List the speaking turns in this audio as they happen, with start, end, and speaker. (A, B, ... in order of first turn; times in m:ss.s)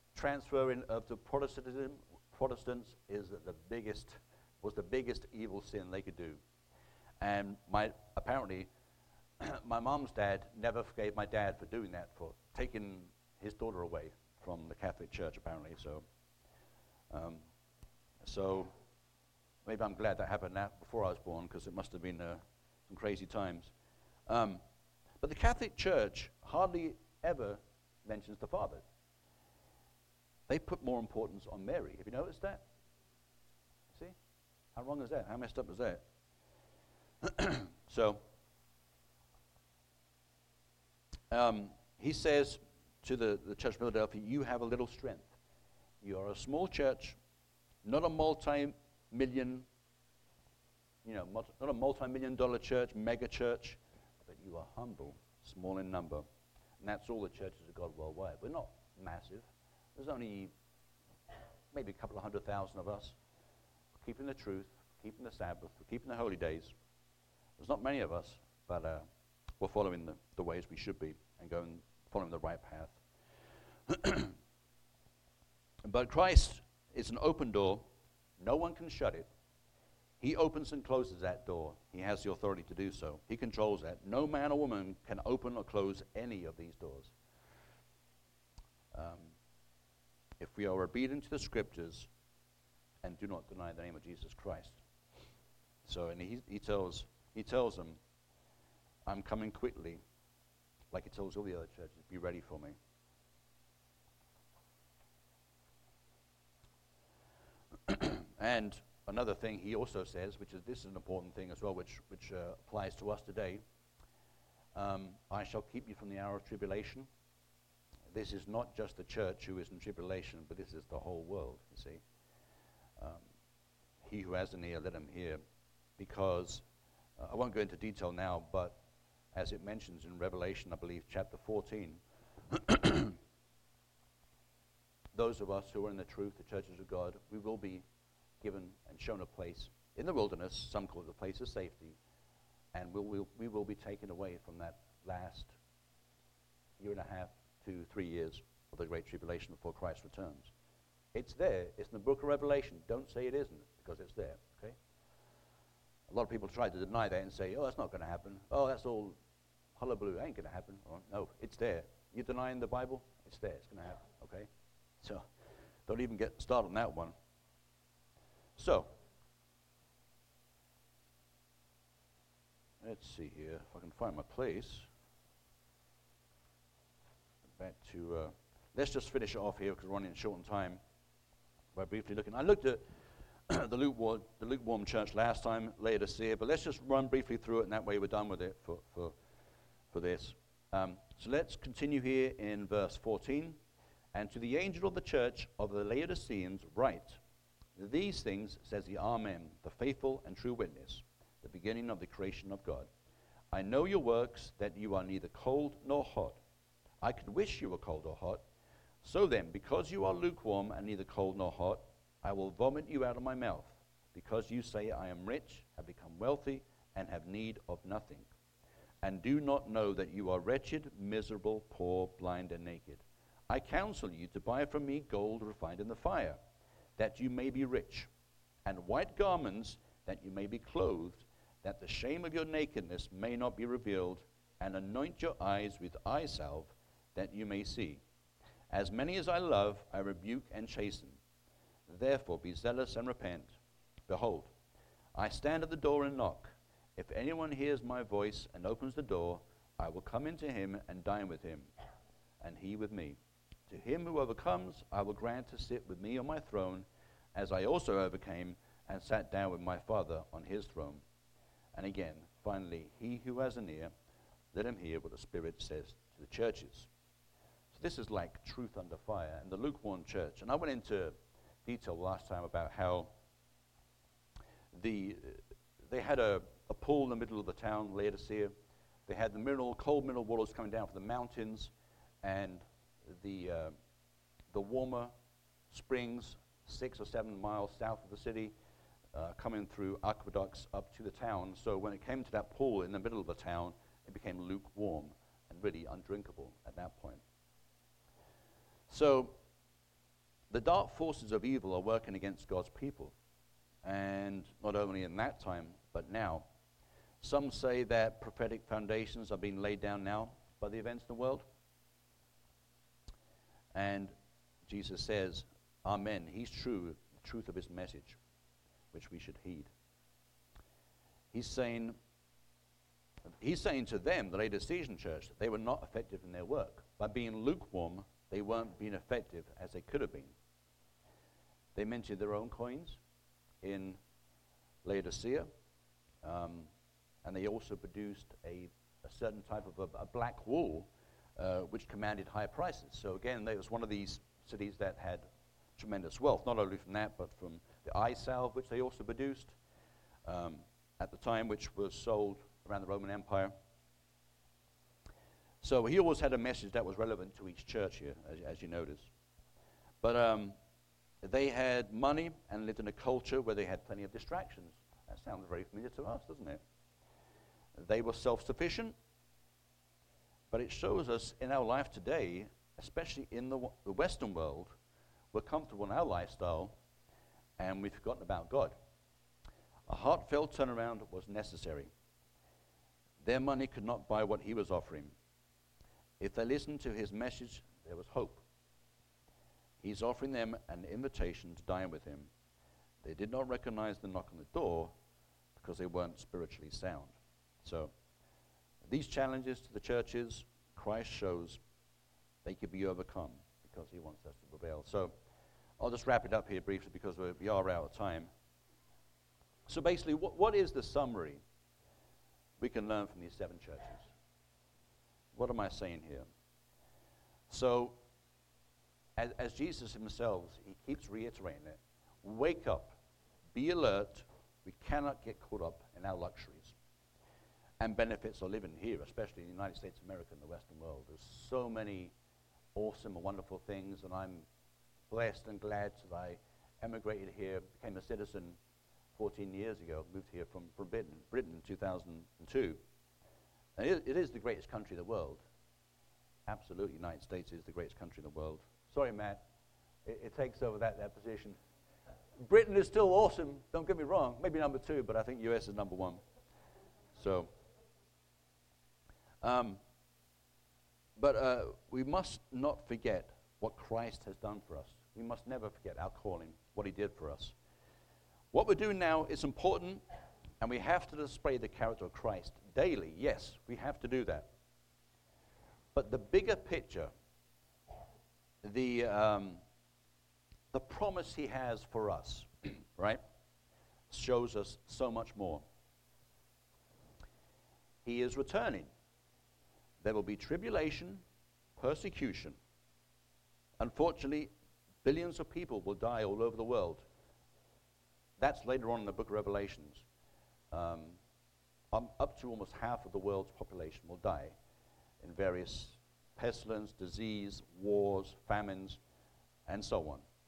0:00.1-0:06.4 A
0:07.2-0:08.7 A
0:09.4-0:16.0 A
0:17.1-0:17.5 A
0:18.2-0:18.7 A
0:19.6-0:23.7 A
0:24.3-0:24.6 A
0:25.2-0:28.8 A
0:30.5-0:32.6 A
0:34.8-0:36.0 A
0:37.2-0:38.2 A
0:41.3-0:45.3 A
0:46.0-0:47.2 A
0:47.8-0:49.7 A
0:51.0-0:56.2 A
0:56.8-1:00.5 A
1:01.7-1:03.2 A
1:04.0-1:06.7 A
1:07.6-1:09.0 A
1:09.6-1:13.0 A
1:13.9-1:14.3 A
1:15.8-1:17.9 A
1:18.4-1:19.3 A
1:20.2-1:27.1 A
1:28.9-1:29.3 A
1:30.4-1:32.1 A
1:33.0-1:34.8 A
1:35.8-1:38.0 A
1:39.1-1:40.0 A
1:40.9-1:42.8 A
1:47.9-1:53.6 A
1:54.8-1:57.1 A
1:58.1-2:02.0 A
2:03.0-2:03.2 A
2:04.0-2:05.4 A
2:06.0-2:06.6 A
2:07.2-2:08.8 A
2:09.3-2:12.0 A
2:12.5-2:13.2 A
2:15.1-2:17.8 A
2:18.4-2:22.0 A
2:22.7-2:25.6 A
2:26.8-2:30.5 A
2:31.1-2:34.8 A
2:36.1-2:39.2 A
2:39.8-2:44.5 A
2:45.9-2:47.1 A
2:48.6-2:48.9 A
2:52.8-2:54.9 A
2:57.6-3:00.8 A
3:01.8-3:02.8 A
3:03.5-3:09.1 A
3:09.9-3:13.6 A
3:14.1-3:17.2 A
3:17.8-3:22.9 A
3:23.5-3:26.4 A
3:27.0-3:28.4 A
3:29.0-3:38.3 A
3:39.0-3:46.4 A
3:47.0-3:48.1 A
3:48.6-3:58.0 A
3:58.7-4:01.2 A
4:01.9-4:03.6 A
4:04.1-4:04.5 A
4:05.2-4:11.7 A
4:12.4-4:13.2 A
4:13.7-4:21.0 A
4:21.7-4:23.9 A
4:24.5-4:26.9 A
4:27.7-4:33.1 A
4:34.7-4:38.5 A
4:39.1-4:41.7 A
4:42.2-4:43.8 A
4:44.5-4:45.1 A
4:45.7-4:48.5 A
4:49.1-4:57.2 A
4:58.9-4:59.4 A
5:00.5-5:03.1 A
5:03.8-5:06.4 A
5:07.2-5:11.4 A
5:13.7-5:14.1 A
5:14.7-5:18.2 A
5:18.9-5:19.7 A
5:21.3-5:22.0 A
5:23.4-5:30.3 A
5:31.8-5:33.0 A
5:33.6-5:34.0 A
5:34.8-5:35.5 A
5:36.2-5:36.7 A
5:37.2-5:45.2 A
5:45.8-5:49.6 A
5:50.2-5:53.5 A
5:55.6-5:59.1 A
6:00.0-6:00.6 A
6:01.2-6:06.6 A
6:07.8-6:08.9 A
6:10.5-6:14.8 A
6:15.3-6:16.7 A
6:17.6-6:18.8 A
6:19.9-6:21.9 A
6:23.2-6:25.1 A
6:26.2-6:28.4 A
6:29.8-6:32.3 A
6:33.0-6:34.9 A
6:35.6-6:37.9 A
6:38.8-6:41.6 A
6:42.4-6:45.1 A
6:45.8-6:48.3 A
6:49.7-6:51.4 A
6:52.6-6:54.1 A
6:55.3-6:56.3 A
6:57.5-6:58.0 A
6:59.2-7:03.0 A
7:03.5-7:06.8 A
7:07.8-7:12.1 A
7:12.8-7:14.5 A
7:15.1-7:18.6 A
7:19.2-7:22.8 A
7:23.8-7:25.4 A
7:26.5-7:29.4 A
7:30.0-7:31.6 A
7:32.4-7:36.2 A
7:37.2-7:37.5 A
7:39.4-7:39.8 A
7:41.2-7:47.6 A
7:48.5-7:50.0 A
7:50.6-7:54.5 A
7:55.9-7:57.1 A
7:58.6-7:59.6 A
8:00.7-8:03.2 A
8:04.1-8:05.6 A
8:08.0-8:08.9 A
8:10.0-8:11.2 A
8:11.8-8:12.6 A
8:13.8-8:14.5 A
8:15.0-8:17.0 A
8:18.4-8:20.0 A
8:20.7-8:21.2 A
8:21.9-8:24.6 A
8:25.2-8:29.0 A
8:29.7-8:30.2 A